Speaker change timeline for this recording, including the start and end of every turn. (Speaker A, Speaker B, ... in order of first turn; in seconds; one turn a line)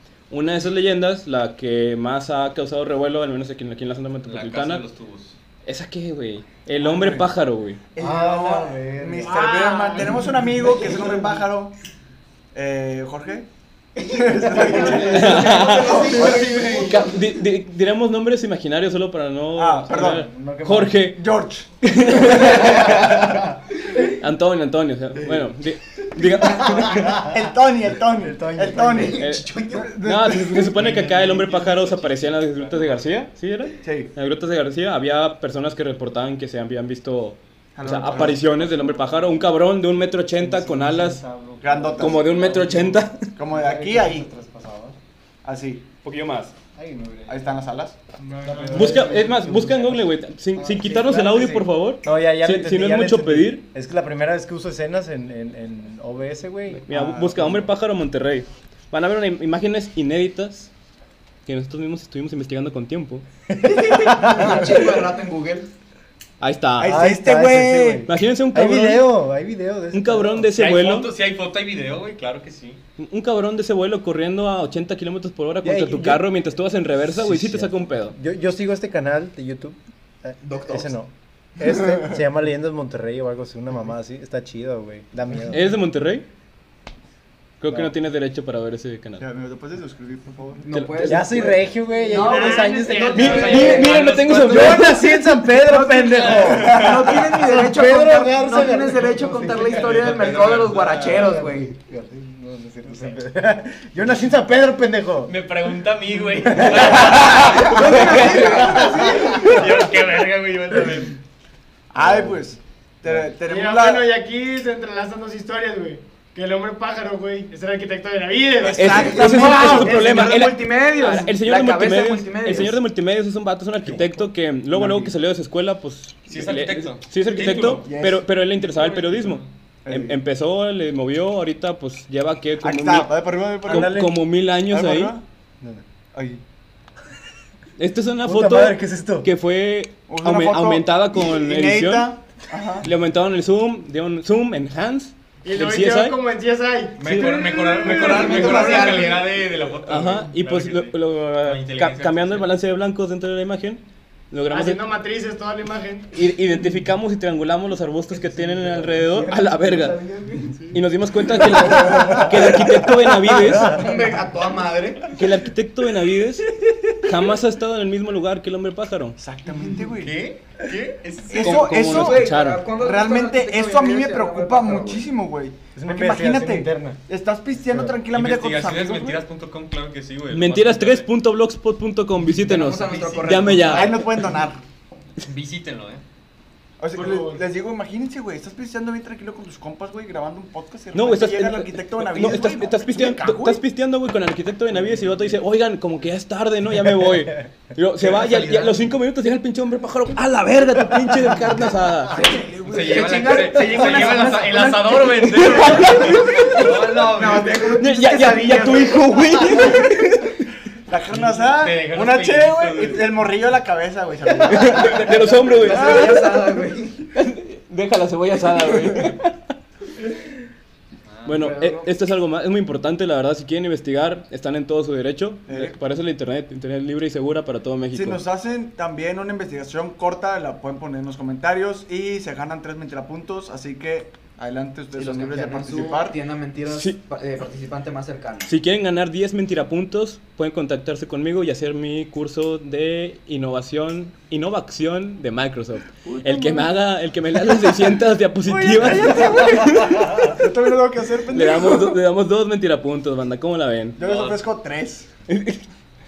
Speaker A: 0.3-4.8
Speaker B: 4.2-5.4
Speaker A: 5.6-7.8
Speaker C: 6.8-7.3
Speaker C: 7.9-11.7
Speaker D: 8.0-9.4
Speaker E: 9.2-10.7
Speaker C: 12.5-13.5
Speaker C: 14.0-16.9
Speaker F: 14.1-17.2
Speaker A: 15.0-21.2
Speaker E: 15.6-17.0
Speaker C: 19.5-20.2
Speaker D: 20.1-21.1
Speaker C: 21.1-23.4
Speaker A: 21.8-23.4
Speaker A: 24.0-27.2
Speaker C: 26.2-29.2
Speaker F: 26.4-26.8
Speaker D: 28.1-29.2
Speaker F: 28.9-29.9
Speaker A: 29.2-41.2
Speaker C: 29.7-31.6
Speaker B: 31.7-33.0
Speaker C: 33.8-34.1
Speaker C: 37.8-38.5
Speaker D: 38.1-45.0
Speaker C: 41.6-42.8
Speaker A: 42.0-43.3
Speaker C: 43.4-44.3
Speaker C: 45.4-45.9
Speaker A: 46.0-46.5
Speaker D: 46.7-47.5
Speaker C: 47.3-48.0
Speaker E: 48.2-49.1
Speaker D: 48.4-57.6
Speaker A: 48.7-53.7
Speaker A: 56.7-60.7
Speaker C: 56.9-57.7
Speaker A: 61.5-63.2
Speaker D: 63.5-64.7
Speaker F: 63.6-65.7
Speaker A: 66.4-67.0
Speaker C: 66.8-68.0
Speaker D: 66.8-70.6
Speaker A: 68.0-69.2
Speaker A: 69.9-71.1
Speaker B: 70.5-72.8
Speaker A: 73.0-78.2
Speaker D: 75.6-85.8
Speaker F: 80.4-80.9
Speaker A: 85.5-86.3
Speaker A: 87.6-89.2
Speaker D: 87.7-87.9
Speaker C: 89.2-90.7
Speaker F: 90.6-95.0
Speaker A: 90.7-91.5
Speaker D: 91.0-105.3
Speaker E: 92.1-94.0
Speaker A: 93.1-95.2
Speaker B: 93.9-94.7
Speaker F: 95.6-101.7
Speaker B: 96.3-96.7
Speaker C: 96.6-97.0
Speaker B: 99.5-101.4
Speaker B: 105.3-111.2
Speaker D: 106.5-107.1
Speaker A: 106.9-108.8
Speaker F: 106.9-109.5
Speaker C: 107.4-109.0
Speaker D: 107.9-109.8
Speaker C: 111.9-114.1
Speaker D: 112.0-112.5
Speaker E: 113.4-120.0
Speaker C: 118.6-120.5
Speaker A: 118.7-135.2
Speaker F: 119.0-122.8
Speaker D: 123.8-124.2
Speaker C: 124.7-125.1
Speaker B: 126.3-127.8
Speaker C: 127.7-128.2
Speaker B: 128.7-129.4
Speaker C: 129.8-130.2
Speaker C: 132.6-135.2
Speaker D: 133.7-134.1
Speaker C: 136.1-136.4
Speaker A: 137.8-142.1
Speaker D: 138.2-139.3
Speaker C: 140.1-142.9
Speaker A: 142.8-146.2
Speaker E: 145.4-147.3
Speaker B: 147.0-152.5
Speaker A: 147.0-147.5
Speaker C: 147.8-149.2
Speaker E: 147.8-148.8
Speaker F: 147.9-149.2
Speaker A: 149.8-154.8
Speaker E: 154.5-156.2
Speaker A: 156.1-160.0
Speaker F: 158.7-160.7
Speaker A: 160.7-163.8
Speaker D: 161.5-162.6
Speaker D: 163.3-163.7
Speaker F: 163.5-165.1
Speaker A: 165.1-166.4
Speaker A: 167.0-169.2
Speaker C: 169.2-170.2
Speaker B: 170.0-171.8
Speaker C: 171.3-179.2
Speaker A: 171.4-172.7
Speaker F: 171.7-175.1
Speaker D: 175.7-177.0
Speaker D: 177.6-178.0
Speaker B: 178.1-181.1
Speaker A: 180.3-184.2
Speaker F: 182.4-184.0
Speaker C: 183.7-184.6
Speaker B: 185.2-186.0
Speaker C: 186.8-193.6
Speaker E: 186.9-187.4
Speaker A: 190.9-202.2
Speaker D: 194.8-195.2
Speaker C: 198.0-198.7
Speaker D: 201.1-201.5
Speaker C: 202.1-204.6
Speaker F: 202.1-209.2
Speaker B: 202.7-207.8
Speaker A: 205.2-206.7
Speaker C: 206.1-209.7
Speaker A: 207.8-210.4
Speaker C: 210.9-216.2
Speaker B: 211.1-213.1
Speaker A: 214.4-216.4
Speaker F: 214.6-217.1
Speaker A: 217.1-219.3
Speaker B: 221.1-221.4
Speaker A: 221.2-228.2
Speaker F: 221.3-221.9
Speaker C: 225.5-225.8
Speaker C: 227.9-236.2
Speaker F: 234.9-238.5
Speaker A: 236.7-237.0
Speaker A: 238.4-250.4
Speaker C: 246.1-246.6
Speaker C: 248.4-252.0
Speaker A: 251.3-254.0
Speaker C: 254.0-255.1
Speaker B: 254.0-254.4
Speaker A: 255.3-255.6